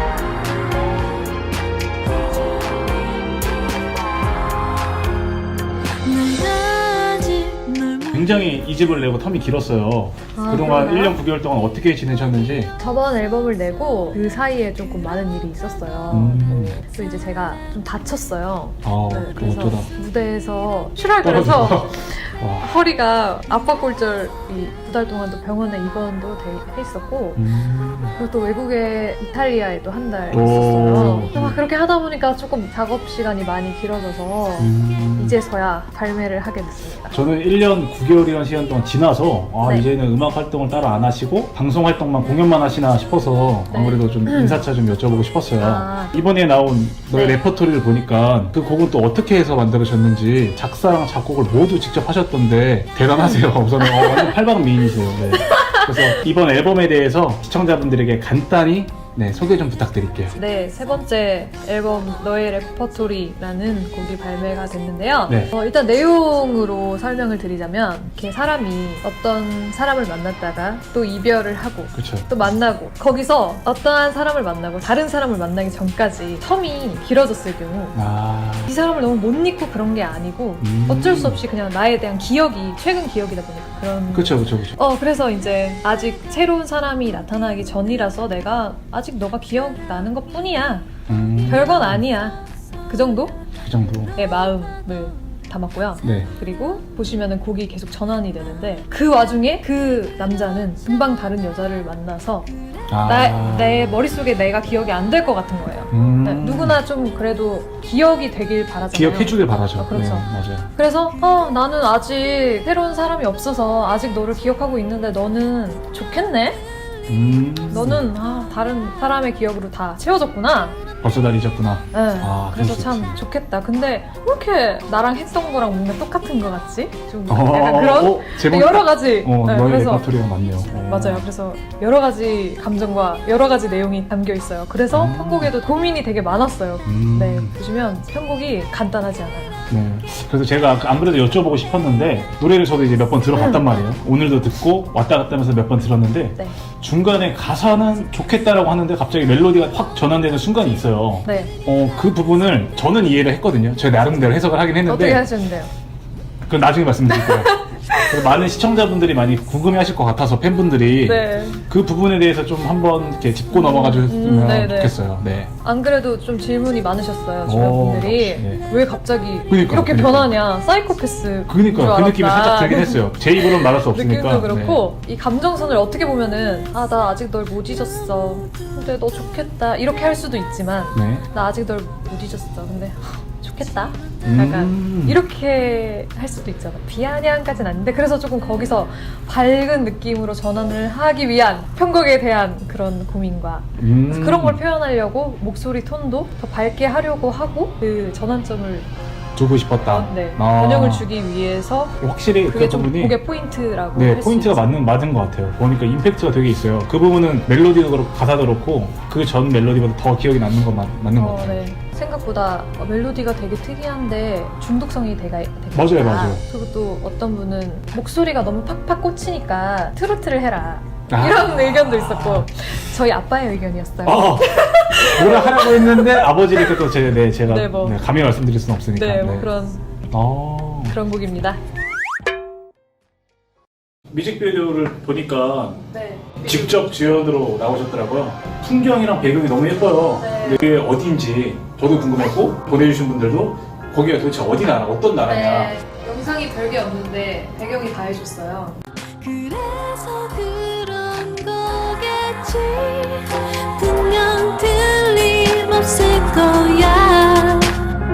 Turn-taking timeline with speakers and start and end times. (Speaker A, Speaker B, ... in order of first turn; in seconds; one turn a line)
Speaker A: 6.0-8.3
Speaker B: 8.1-12.7
Speaker C: 10.3-11.2
Speaker C: 12.8-27.4
Speaker B: 16.1-16.8
Speaker B: 18.8-19.9
Speaker B: 21.2-22.7
Speaker B: 27.4-28.1
Speaker C: 28.1-37.2
Speaker B: 30.3-31.6
Speaker B: 34.6-35.4
Speaker B: 37.1-60.4
Speaker C: 39.6-39.9
Speaker C: 43.7-44.6
Speaker C: 45.6-46.1
Speaker C: 47.1-47.4
Speaker C: 53.2-54.4
Speaker C: 55.3-56.2
Speaker C: 60.4-78.0
Speaker B: 71.9-72.3
Speaker B: 77.9-78.7
Speaker C: 78.7-90.9
Speaker B: 80.6-81.4
Speaker B: 84.1-84.8
Speaker B: 91.1-92.0
Speaker C: 91.5-93.4
Speaker B: 93.6-94.1
Speaker C: 94.2-102.5
Speaker B: 96.0-96.3
Speaker B: 102.9-104.0
Speaker C: 103.0-116.6
Speaker B: 105.9-106.8
Speaker B: 108.9-110.7
Speaker B: 117.1-118.0
Speaker C: 117.7-120.8
Speaker B: 121.0-123.2
Speaker C: 121.9-130.1
Speaker B: 127.3-131.3
Speaker C: 130.8-139.6
Speaker B: 134.9-135.6
Speaker B: 136.8-137.5
Speaker B: 139.7-155.2
Speaker C: 143.3-143.7
Speaker C: 151.2-151.5
Speaker C: 154.9-155.7
Speaker B: 156.5-157.6
Speaker C: 157.1-158.4
Speaker B: 158.1-165.5
Speaker C: 161.1-161.6
Speaker C: 163.5-164.9
Speaker C: 165.6-198.9
Speaker B: 167.4-168.6
Speaker B: 169.5-170.3
Speaker B: 171.5-174.8
Speaker B: 180.9-181.3
Speaker B: 184.3-185.2
Speaker B: 193.8-194.6
Speaker B: 199.4-201.1
Speaker C: 199.9-204.7
Speaker B: 202.0-203.2
Speaker B: 203.9-211.6
Speaker C: 211.2-226.8
Speaker B: 215.7-216.4
Speaker B: 221.1-222.5
Speaker B: 224.1-229.5
Speaker C: 227.4-228.0
Speaker C: 228.9-229.8
Speaker B: 230.1-231.0
Speaker C: 230.9-231.6
Speaker B: 234.1-235.8
Speaker C: 235.9-236.9
Speaker B: 236.4-245.7
Speaker C: 240.2-240.7
Speaker C: 245.2-248.8
Speaker A: 249.2-257.8